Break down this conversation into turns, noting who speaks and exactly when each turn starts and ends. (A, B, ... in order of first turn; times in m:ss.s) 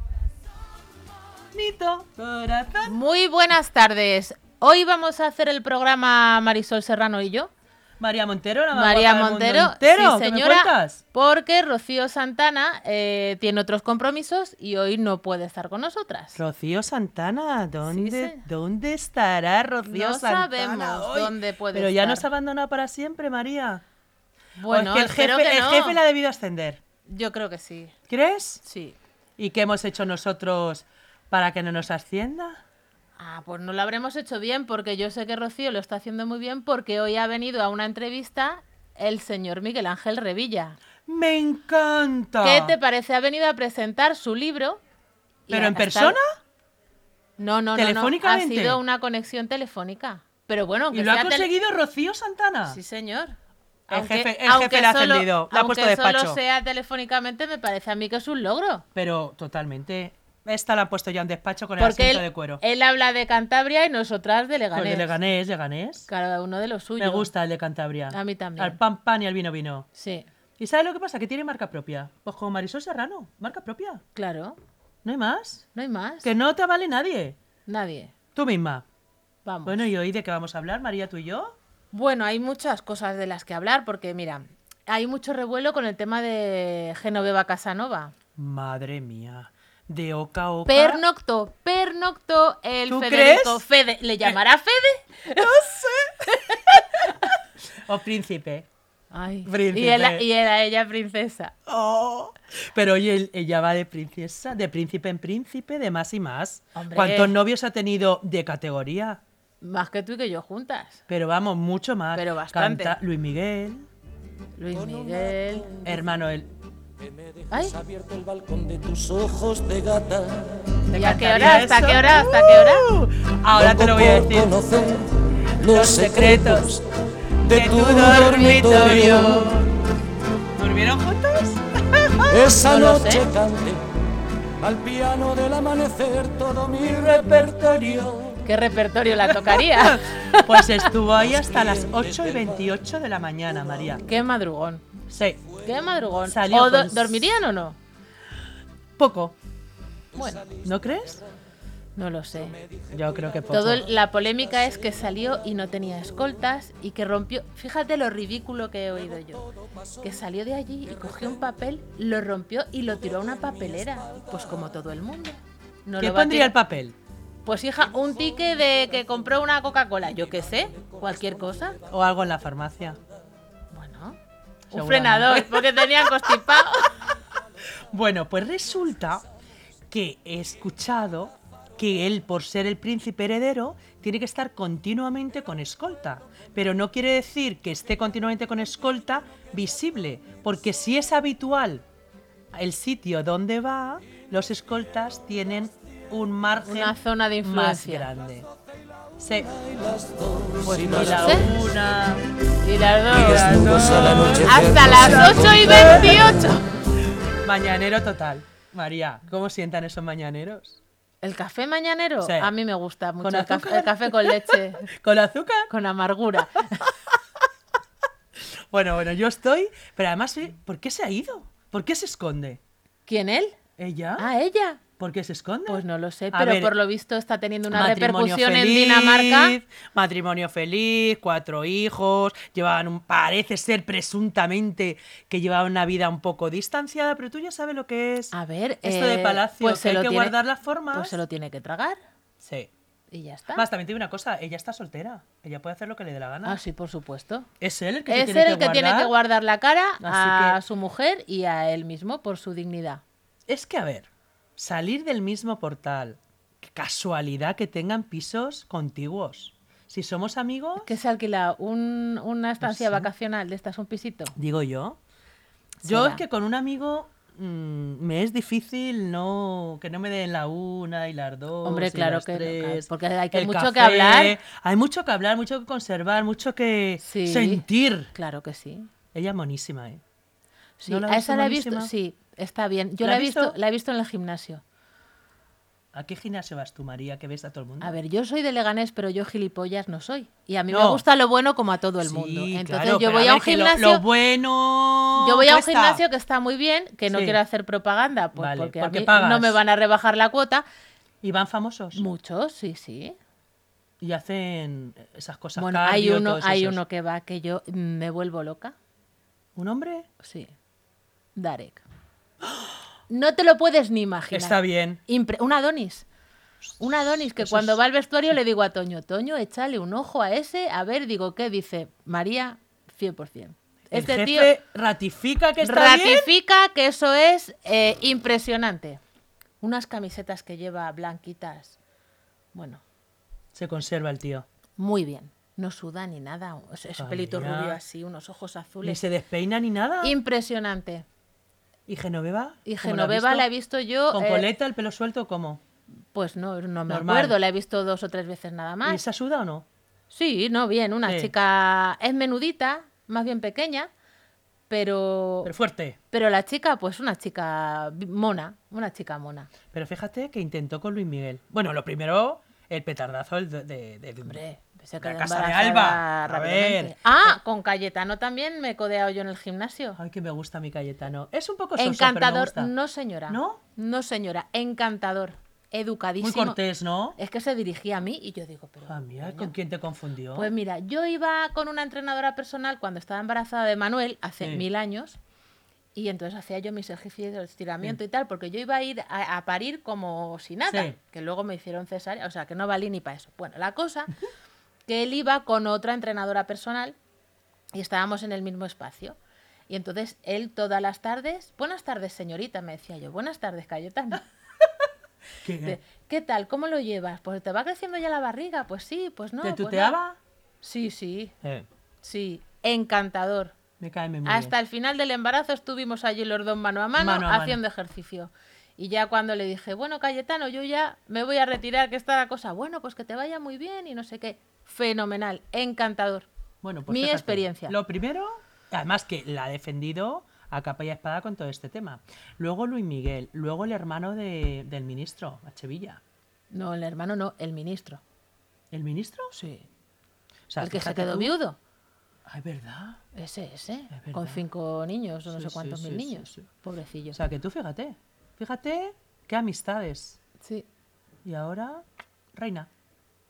0:01.5-0:03.0 A
0:02.8-0:07.5 B
0:08.0-0:11.0 A
0:08.7-0:16.4 B
0:16.4-0:23.8 A
0:17.9-0:18.4 B
0:19.9-0:22.2 B
0:24.6-0:26.0 B
0:24.7-0:26.8 A
0:27.0-0:27.9 B
0:28.1-0:28.6 A
0:28.6-0:29.0 B
0:29.4-0:32.6 A
0:33.2-0:40.8 B
0:41.0-0:42.8 A
0:42.4-0:44.8 B
0:45.5-0:46.2 B
0:45.5-0:46.2 A
0:47.4-0:51.5 B
0:47.7-0:48.8 A
0:50.9-0:52.8 A
0:52.7-0:53.4 B
0:53.9-0:58.8 B
0:53.9-0:56.4 A
0:58.9-1:02.6 A
1:01.8-1:05.1 B
1:04.7-1:06.1 A
1:06.1-1:07.3 B
1:07.0-1:09.9 A
1:08.1-1:08.8 B
1:10.0-1:10.3 B
1:10.6-1:14.0 A
1:14.1-1:14.6 B
1:15.0-1:15.6 A
1:15.7-1:16.3 B
1:16.2-1:17.4 A
1:17.7-1:18.1 B
1:18.3-1:18.8 A
1:19.4-1:19.9 B
1:19.6-1:21.6 A
1:21.9-1:28.1 B
1:28.4-1:31.0 A
1:30.6-1:35.6 B
1:32.9-1:33.6 A
1:35.4-1:38.7 A
1:36.3-1:37.3 B
1:39.1-1:41.6 B
1:39.4-1:40.2 A
1:41.7-1:49.2 A
1:46.7-1:47.4 B
1:49.6-1:51.0 B
1:51.1-1:53.9 A
1:52.1-1:53.0 B
1:54.6-1:55.8 B
1:54.8-1:55.8 C
1:55.8-1:56.5 A
1:57.0-2:00.7 C
1:57.5-1:57.8 B
2:00.9-2:05.0 A
2:00.9-2:02.8 B
2:03.5-2:06.8 C
2:05.6-2:06.8 A
2:07.4-2:09.5 C
2:07.4-2:09.7 A
2:08.3-2:09.1 B
2:10.6-2:12.5 A
2:12.3-2:13.8 C
2:12.6-2:13.3 B
2:14.6-2:18.4 C
2:17.3-2:18.0 A
2:18.4-2:20.9 B
2:19.2-2:24.0 A
2:21.8-2:22.5 C
2:24.0-2:24.9 B
2:25.1-2:25.4 A
2:25.6-2:27.8 B
2:26.2-2:27.3 A
2:29.0-2:29.4 A
2:30.1-2:30.5 B
2:30.6-2:31.2 A
2:32.0-2:32.6 B
2:32.9-2:33.9 A
2:33.5-2:39.4 B
2:40.0-2:46.6 B
2:46.0-2:47.0 A
2:47.4-2:51.8 B
2:51.9-2:53.0 A
2:53.7-2:54.2 B
2:54.7-2:56.7 A
2:54.7-2:56.9 B
2:57.9-2:59.2 A
2:59.9-3:11.8 A
3:12.5-3:18.5 A
3:16.6-3:18.1 B
3:19.2-3:19.5 A
3:19.5-3:21.4 C
3:20.6-3:21.5 B
3:20.9-3:22.2 A
3:22.6-3:23.5 B
3:23.1-3:26.3 A
3:23.1-3:26.2 C
3:24.4-3:26.6 B
3:27.3-3:30.8 A
3:31.2-3:34.9 B
3:32.2-3:32.5 A
3:33.2-3:35.7 A
3:35.7-3:36.9 B
3:38.4-3:42.6 A
3:43.1-3:43.6 B
3:43.8-3:44.3 A
3:44.2-3:44.8 B
3:45.0-3:46.7 A
3:45.6-3:49.6 B
3:47.7-3:58.3 A
3:58.3-4:00.4 B
3:58.8-4:01.2 A
4:00.9-4:02.0 B
4:02.4-4:02.7 A
4:03.1-4:03.7 B
4:03.5-4:06.6 A
4:06.4-4:07.5 B
4:07.6-4:09.1 A
4:08.1-4:13.0 B
4:10.0-4:10.6 A
4:13.5-4:20.9 A
4:20.8-4:24.4 B
4:22.6-4:23.1 A
4:24.4-4:25.0 A
4:25.8-4:26.2 B
4:25.8-4:38.1 A
4:31.6-4:34.4 B
4:37.0-4:38.9 B
4:39.1-4:40.0 A
4:40.8-4:44.6 B
4:40.8-4:41.9 A
4:43.0-4:43.6 A
4:45.9-4:48.0 A
4:47.8-4:54.0 B
4:50.7-4:51.0 A
4:52.0-4:56.0 A
4:55.2-5:00.6 B
4:57.1-4:57.4 A
4:58.3-4:59.6 A
5:01.2-5:02.0 A
5:01.9-5:03.2 B
5:04.0-5:06.8 A
5:05.6-5:08.7 B
5:09.6-5:10.1 A
5:10.2-5:10.5 B
5:11.4-5:11.8 B
5:12.4-5:12.7 A
5:13.1-5:16.0 B
5:14.3-5:15.0 A
5:16.8-5:24.5 B
5:17.2-5:17.8 A
5:23.9-5:26.3 A
5:25.6-5:29.0 B
5:29.6-5:31.8 B
5:32.5-5:32.8 B
5:33.5-5:34.4 A
5:34.8-5:39.0 B
5:37.0-5:37.8 A
5:38.8-5:40.2 A
5:40.0-5:41.0 B
5:41.9-5:43.5 A
5:42.6-5:44.5 B
5:44.1-5:45.6 A
5:46.1-5:49.0 B
5:46.9-5:47.4 A
5:48.8-5:49.7 A
5:50.1-5:53.9 B
5:51.0-5:51.3 A
5:54.7-5:55.5 B
5:55.4-5:56.0 A
5:56.1-5:59.5 B
5:59.7-6:04.4 A
6:04.2-6:10.0 B
6:05.0-6:07.4 A
6:10.0-6:12.7 A
6:11.8-6:16.6 B
6:13.3-6:13.6 A
6:16.2-6:17.2 A
6:17.2-6:19.5 B
6:18.8-6:20.5 A
6:20.3-6:25.2 B
6:25.9-6:34.2 B
6:30.7-6:31.0 A
6:34.9-6:37.0 B
6:37.7-6:39.2 B
6:39.7-6:44.2 B
6:45.4-6:45.8 A
6:45.6-6:50.0 B
6:49.4-6:50.2 A
6:50.6-6:51.3 B
6:52.0-6:53.5 B
6:53.8-6:54.5 A
6:54.2-7:06.3 B
6:57.0-6:57.6 A
7:06.6-7:16.0 A
7:06.9-7:07.8 B
7:16.5-7:18.0 B
7:18.7-7:19.3 A
7:19.3-7:19.6 B
7:20.5-7:21.4 A
7:20.6-7:21.6 B
7:22.2-7:23.0 A
7:23.1-7:27.2 B
7:23.9-7:24.4 A
7:25.3-7:26.5 A
7:27.1-7:30.2 A
7:30.4-7:30.7 B
7:31.2-7:32.7 A